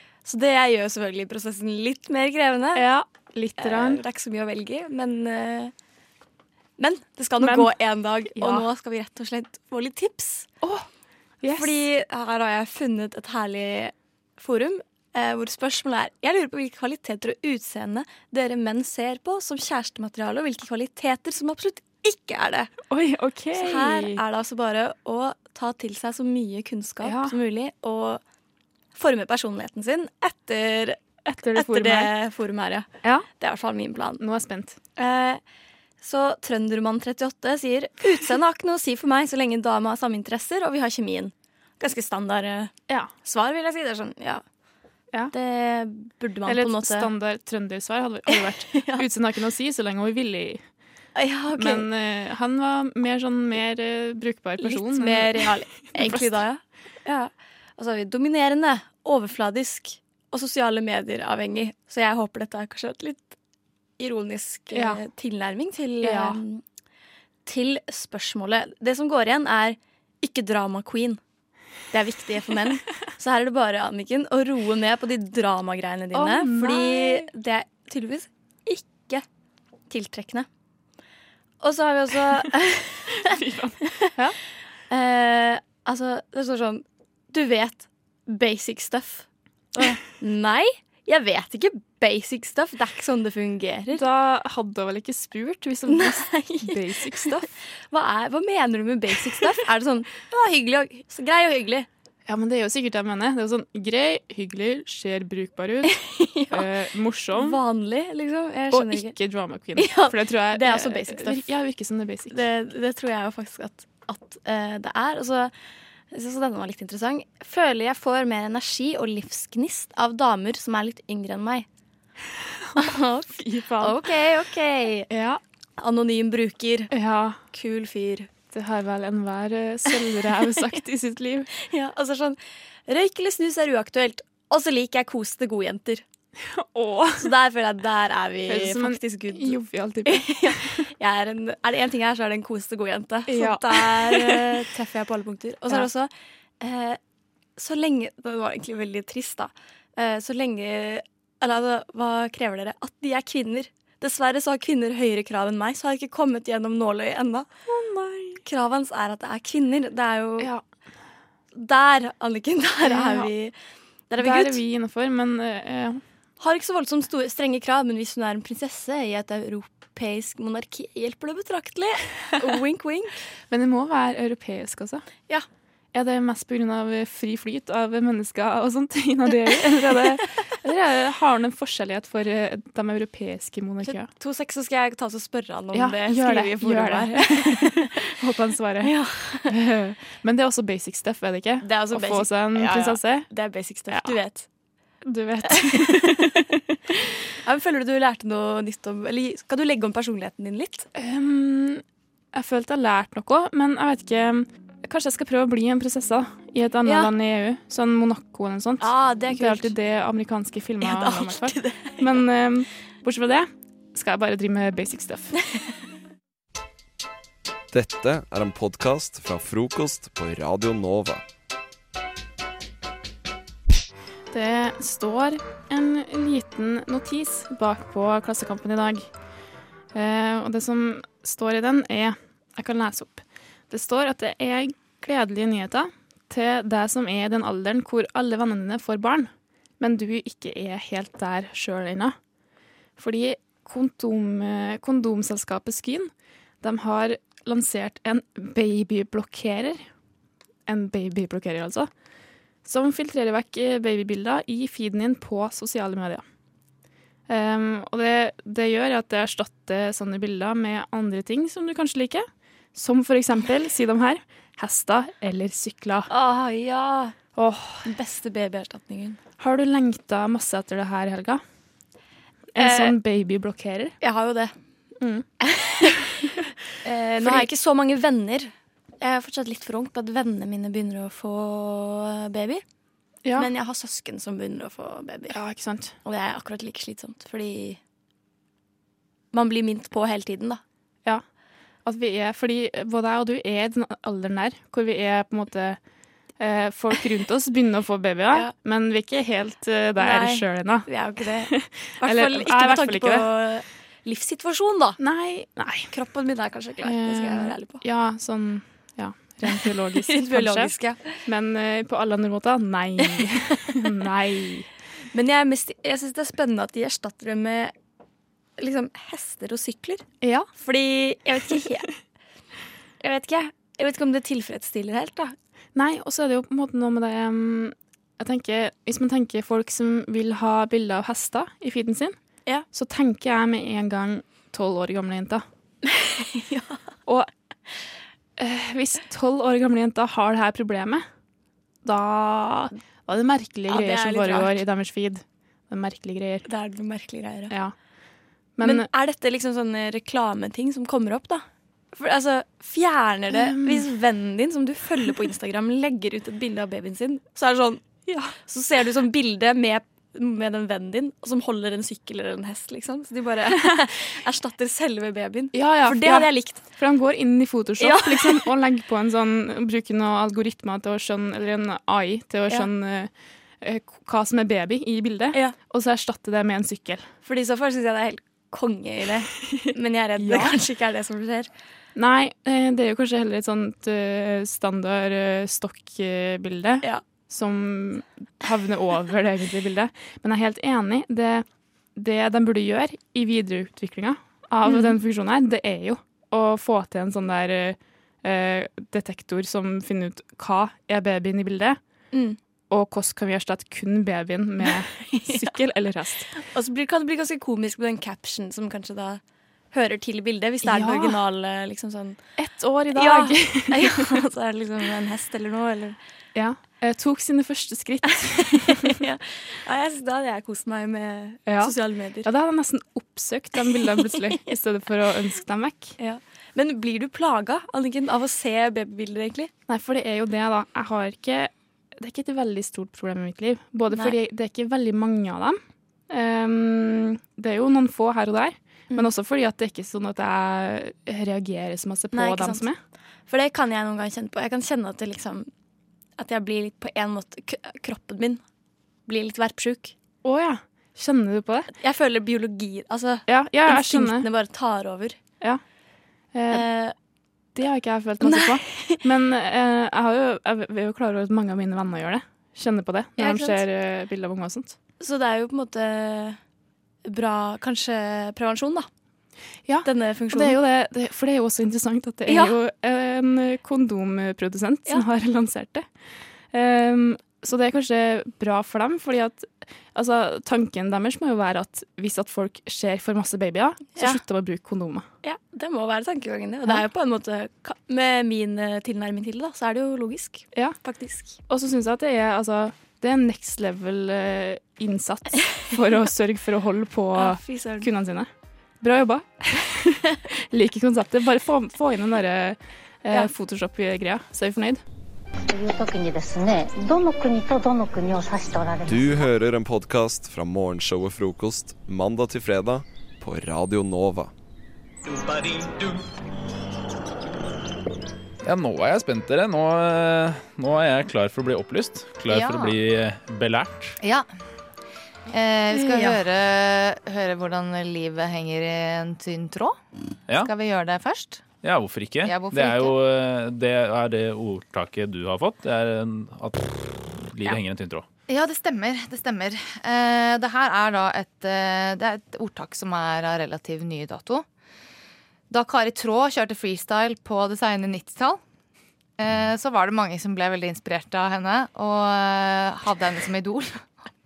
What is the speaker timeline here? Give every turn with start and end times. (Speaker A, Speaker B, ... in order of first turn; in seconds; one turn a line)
Speaker A: 0.2-2.8
Speaker B: 2.8-4.0
Speaker A: 3.6-5.7
Speaker A: 6.8-10.5
Speaker B: 7.4-8.7
Speaker B: 11.4-11.9
Speaker A: 11.4-22.7
Speaker B: 22.9-24.2
Speaker A: 23.6-28.2
Speaker B: 27.0-27.4
Speaker A: 28.9-31.0
Speaker B: 31.3-32.1
Speaker A: 31.5-34.2
Speaker B: 34.2-34.8
Speaker A: 35.0-35.4
Speaker A: 36.0-42.7
Speaker A: 43.2-44.4
Speaker A: 45.3-47.1
Speaker B: 46.5-50.6
Speaker A: 48.3-49.1
Speaker A: 51.2-51.9
Speaker B: 51.5-56.4
Speaker A: 54.6-63.4
Speaker A: 64.0-66.6
Speaker B: 64.7-65.0
Speaker B: 66.0-66.4
Speaker A: 67.5-71.2
Speaker A: 71.9-79.2
Speaker B: 76.1-77.3
Speaker A: 79.9-80.5
Speaker A: 81.6-84.1
Speaker B: 83.3-84.3
Speaker A: 84.9-89.3
Speaker A: 89.8-94.0
Speaker B: 93.9-97.5
Speaker A: 95.9-101.9
Speaker B: 99.1-99.6
Speaker B: 102.3-106.0
Speaker A: 105.8-106.7
Speaker B: 106.5-107.6
Speaker A: 107.3-109.2
Speaker B: 108.7-112.4
Speaker A: 109.8-111.5
Speaker A: 112.3-115.5
Speaker A: 116.1-121.7
Speaker B: 122.8-124.1
Speaker A: 122.8-125.1
Speaker B: 125.1-125.4
Speaker A: 125.8-126.9
Speaker B: 126.9-127.4
Speaker A: 127.5-128.3
Speaker B: 128.4-131.5
Speaker A: 129.9-130.8
Speaker A: 131.5-136.0
Speaker B: 136.6-137.3
Speaker A: 137.2-147.0
Speaker B: 138.5-140.6
Speaker B: 143.3-144.7
Speaker A: 147.6-157.5
Speaker B: 157.7-158.4
Speaker A: 158.4-160.5
Speaker A: 161.5-163.5
Speaker B: 162.8-163.3
Speaker A: 164.1-164.6
Speaker B: 164.2-166.0
Speaker A: 166.4-173.1
Speaker B: 173.5-175.1
Speaker B: 175.9-184.1
Speaker A: 179.9-180.2
Speaker A: 183.8-187.9
Speaker B: 185.7-188.9
Speaker A: 188.8-189.5
Speaker B: 189.5-193.3
Speaker A: 191.6-194.5
Speaker B: 193.9-194.2
Speaker B: 195.1-196.4
Speaker A: 195.4-196.4
Speaker A: 197.4-200.9
Speaker B: 201.0-201.8
Speaker B: 202.3-215.3
Speaker A: 206.8-207.1
Speaker A: 208.8-209.8
Speaker A: 210.8-212.2
Speaker C: 217.7-221.2
Speaker B: 224.3-229.1
Speaker B: 229.9-242.2
Speaker B: 243.0-246.1
Speaker B: 246.6-249.8
Speaker B: 250.7-251.9
Speaker B: 252.7-256.2
Speaker B: 257.3-266.1
Speaker A: 266.1-267.2
Speaker B: 267.3-267.9
Speaker A: 267.9-269.2
Speaker B: 269.4-271.4
Speaker B: 272.6-273.9
Speaker A: 272.6-273.0
Speaker A: 274.0-274.5
Speaker A: 275.4-276.0
Speaker A: 276.8-282.6
Speaker B: 277.2-277.5
Speaker B: 283.2-283.5
Speaker A: 283.4-285.4
Speaker B: 285.3-285.9
Speaker A: 286.0-287.8
Speaker A: 289.3-290.6
Speaker B: 291.9-295.8
Speaker B: 296.4-300.9
Speaker A: 300.0-305.0
Speaker B: 301.4-303.3
Speaker B: 305.0-305.9
Speaker A: 305.9-307.8
Speaker B: 306.8-314.7
Speaker A: 309.4-311.2
Speaker A: 313.0-313.6
Speaker A: 315.1-317.7
Speaker A: 318.6-321.9
Speaker B: 320.2-320.5
Speaker A: 323.0-325.4
Speaker B: 325.8-332.1
Speaker B: 332.7-335.4
Speaker A: 335.9-336.8
Speaker B: 338.4-341.1
Speaker B: 341.9-346.5
Speaker A: 343.7-344.6
Speaker A: 346.4-347.5
Speaker B: 347.5-347.8
Speaker B: 348.6-348.9
Speaker A: 348.6-366.7
Speaker B: 353.3-353.9
Speaker B: 365.5-373.1
Speaker A: 367.8-368.5
Speaker B: 373.6-377.1
Speaker A: 377.2-381.5
Speaker B: 380.2-380.6
Speaker B: 382.0-401.8
Speaker A: 394.7-395.0
Speaker A: 402.1-402.4
Speaker B: 402.7-406.3
Speaker A: 404.6-405.5
Speaker A: 406.4-409.2
Speaker A: 409.7-412.2
Speaker B: 410.6-411.2
Speaker B: 412.4-414.2
Speaker A: 412.9-416.0
Speaker B: 416.4-419.0
Speaker A: 418.8-422.3
Speaker B: 421.4-425.9
Speaker A: 423.6-424.5
Speaker A: 426.0-429.5
Speaker B: 429.7-435.6
Speaker A: 433.9-434.2
Speaker B: 436.1-442.8
Speaker A: 442.1-442.7
Speaker A: 443.3-445.5
Speaker A: 446.2-448.4
Speaker A: 449.1-449.9
Speaker B: 450.2-451.7
Speaker A: 451.8-455.2
Speaker B: 453.3-454.3
Speaker B: 456.3-456.7
Speaker A: 456.5-456.9
Speaker B: 457.6-464.8
Speaker A: 458.2-459.0
Speaker A: 463.2-463.6
Speaker A: 465.0-466.4
Speaker A: 467.1-468.9
Speaker B: 469.7-475.9
Speaker A: 469.8-470.6
Speaker A: 472.3-472.6
Speaker B: 476.5-485.1
Speaker A: 483.9-484.2
Speaker A: 485.2-491.4
Speaker B: 491.5-498.3
Speaker A: 497.1-497.9
Speaker B: 498.8-499.8
Speaker B: 500.3-504.8
Speaker D: 505.5-509.3
Speaker C: 508.9-514.3
Speaker E: 518.4-524.0
Speaker F: 522.3-522.7
Speaker F: 525.3-529.7
Speaker B: 525.7-526.1
Speaker F: 530.4-531.4
Speaker E: 531.6-538.1
Speaker F: 532.2-532.9
Speaker F: 538.3-544.4
Speaker F: 545.5-548.4
Speaker F: 549.2-553.8